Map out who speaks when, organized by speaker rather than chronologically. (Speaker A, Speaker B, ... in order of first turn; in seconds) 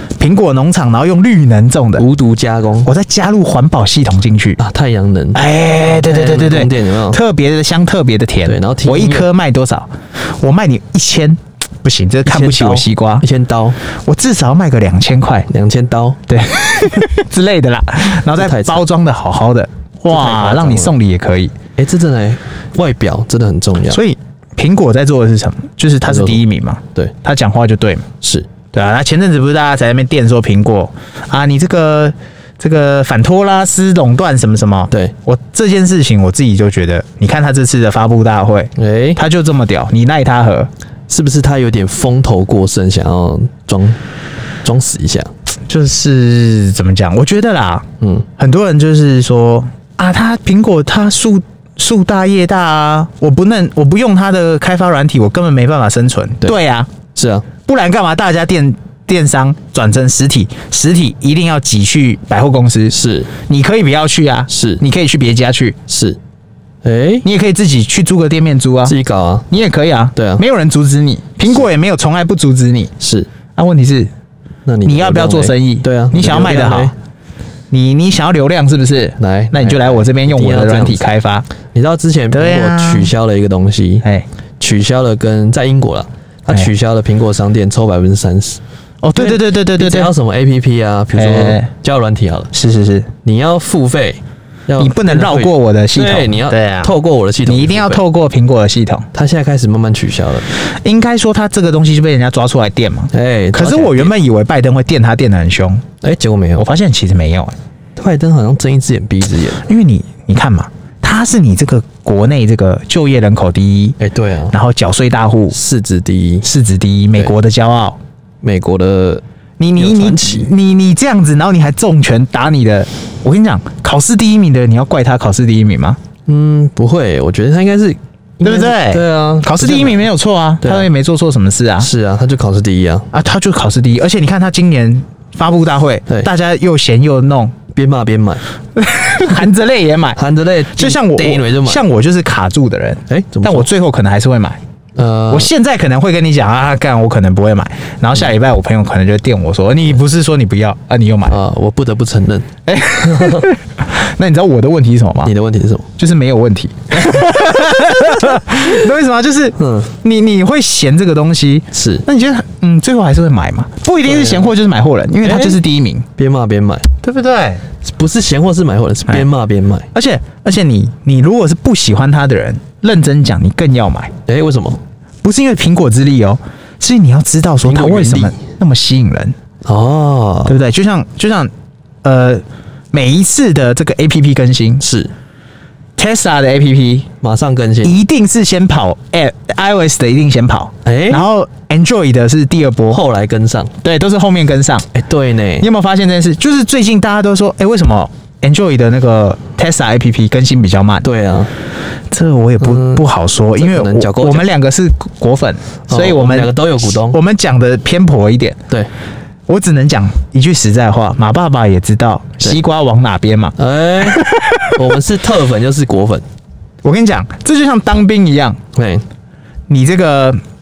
Speaker A: 0.2-2.0, 2.8-4.6, 5.3-13.2, 13.8-15.5, 16.3-21.5, 23.9-28.1, 28.7-40.7, 45.7-56.9, 57.6-65.8, 67.2-69.0, 69.5-72.9, 73.5-74.1, 74.8-76.9, 77.7-81.5, 82.3-83.1, 89.0-90.1, 91.1-91.7, 92.5-93.1, 94.8-96.9, 97.4-99.1, 100.5-105.8, 106.6-107.5, 109.6-114.0, 114.5-115.6, 116.4-118.0, 119.6-126.0, 128.4-131.9, 133.1-137.6, 138.8-140.2, 140.7-144.6, 145.3-151.3, 152.7-155.3, 156.0-166.1, 167.0-167.6, 169.9-174.1, 175.2-179.3, 180.4-181.5, 182.0-184.8, 186.0-187.1, 187.8-193.0, 193.8-194.9, 195.6-201.1, 202.1-208.6, 209.5-214.8, 216.8-218.6, 219.7-220.4
Speaker B: 2.0-2.9, 4.6-5.4, 5.9-7.2, 8.4-9.3, 12.2-13.8, 15.5-16.2, 18.4-18.8, 20.1-20.9, 21.8-24.0, 26.1-26.4, 28.2-28.5, 38.8-39.2, 41.1-44.0, 44.6-45.3, 48.0-48.3, 57.1-57.5, 62.9-63.3, 64.5-64.8, 65.9-66.2, 66.8-67.2, 68.8-69.5, 70.2-70.4, 73.0-73.3, 74.7-76.9, 79.2-81.0, 81.7-84.0, 84.6-88.6, 89.2-92.5, 93.2-98.0, 99.1-100.5, 103.1-104.1, 106.0-106.7, 108.0-109.6, 114.0-114.5, 115.5-116.5, 118.4-119.2, 119.8-120.5, 126.2-130.1, 130.6-130.9, 131.8-133.1, 137.7-138.4, 140.2-141.8, 143.1-143.7, 144.9-145.5, 151.3-152.5, 153.0-153.5, 155.2-155.9, 156.9-158.0, 159.6-159.9, 161.7-162.0, 164.0-164.5, 165.2-165.6, 166.2-166.9, 167.8-169.9, 174.3-174.8, 177.6-178.4, 179.6-180.6, 184.8-185.1, 187.2-187.9, 190.8-191.3, 192.9-193.7, 194.9-195.7, 201.0-201.5, 202.6-203.0, 203.6-204.4, 205.9-207.2, 213.6-216.2, 218.7-219.0